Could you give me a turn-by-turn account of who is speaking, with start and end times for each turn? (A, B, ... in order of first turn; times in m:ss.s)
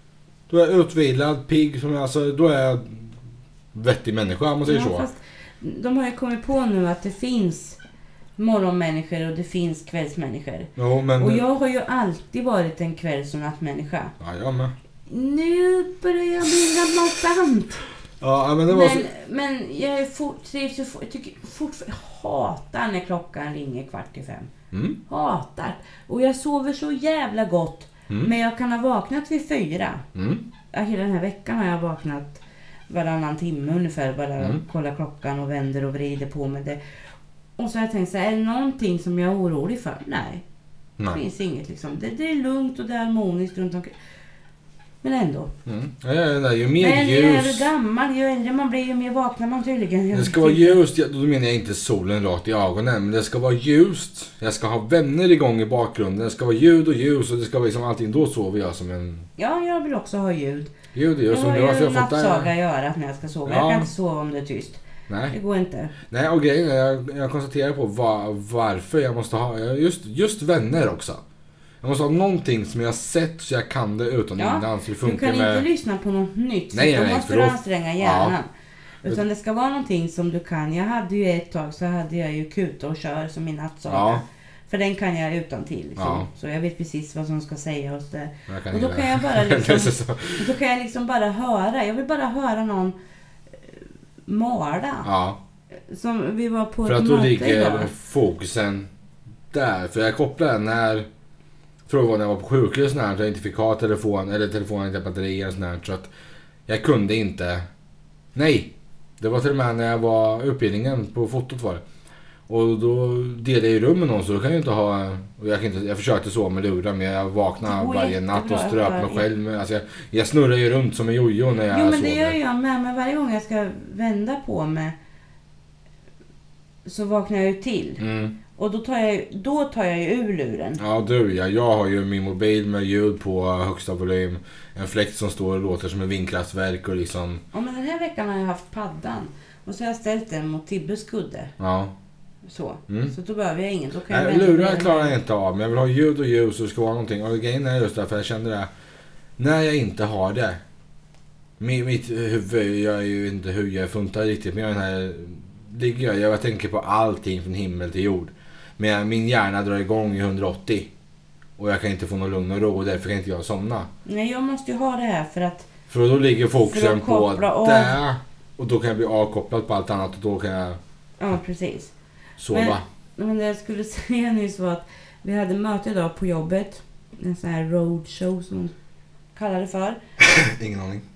0:00.5-0:03.1 A
0:03.7-0:05.0 A
0:04.6-0:07.8 B
0:08.4-0:14.1 B
0:10.8-0:11.4 A
0:14.2-0:14.7 A
0:15.1-0:17.8 B
0:18.2-0:19.1 A
0:18.7-0:24.5 B
0:24.7-0:25.0 A
0:25.1-0:30.0 B
0:30.1-0:30.4 A
0:30.7-0:36.8 B
0:37.6-0:40.4 B
0:41.1-0:43.9 B
0:45.0-0:45.5 B
0:45.6-0:47.7 A
0:46.8-0:50.8 B
0:50.1-0:59.2 A
0:59.4-1:00.7 B
1:00.9-1:02.5 A
1:01.3-1:05.9 B
1:03.4-1:03.9 A
1:05.1-1:05.3 A
1:06.1-1:11.2 A
1:11.8-1:15.6 A
1:14.4-1:18.5 B
1:16.7-1:18.3 A
1:19.0-1:33.0 B
1:23.9-1:24.2 A
1:26.0-1:26.3 A
1:28.5-1:30.5 A
1:33.7-1:35.1 B
1:35.0-1:35.4 A
1:35.9-1:37.9 B
1:36.8-1:38.9 A
1:39.5-1:41.1 A
1:41.9-1:46.1 A
1:46.7-1:47.6 A
1:48.3-1:51.8 A
1:52.5-2:02.4 A
1:57.6-1:59.3 B
2:01.7-2:05.0 B
2:06.8-2:08.0 B
2:08.0-2:08.4 A
2:08.5-2:10.8 B
2:10.8-2:17.4 A
2:17.5-2:21.5 B
2:21.6-2:21.9 A
2:22.5-2:25.2 B
2:24.1-2:28.7 A
2:29.4-2:30.6 A
2:31.6-2:40.9 A
2:41.6-2:43.9 A
2:44.0-2:45.7 B
2:45.9-2:50.8 A
2:46.6-2:47.9 B
2:51.2-2:51.9 B
2:52.4-2:52.8 A
2:52.5-2:58.7 B
2:59.3-3:00.0 B
3:00.2-3:01.0 A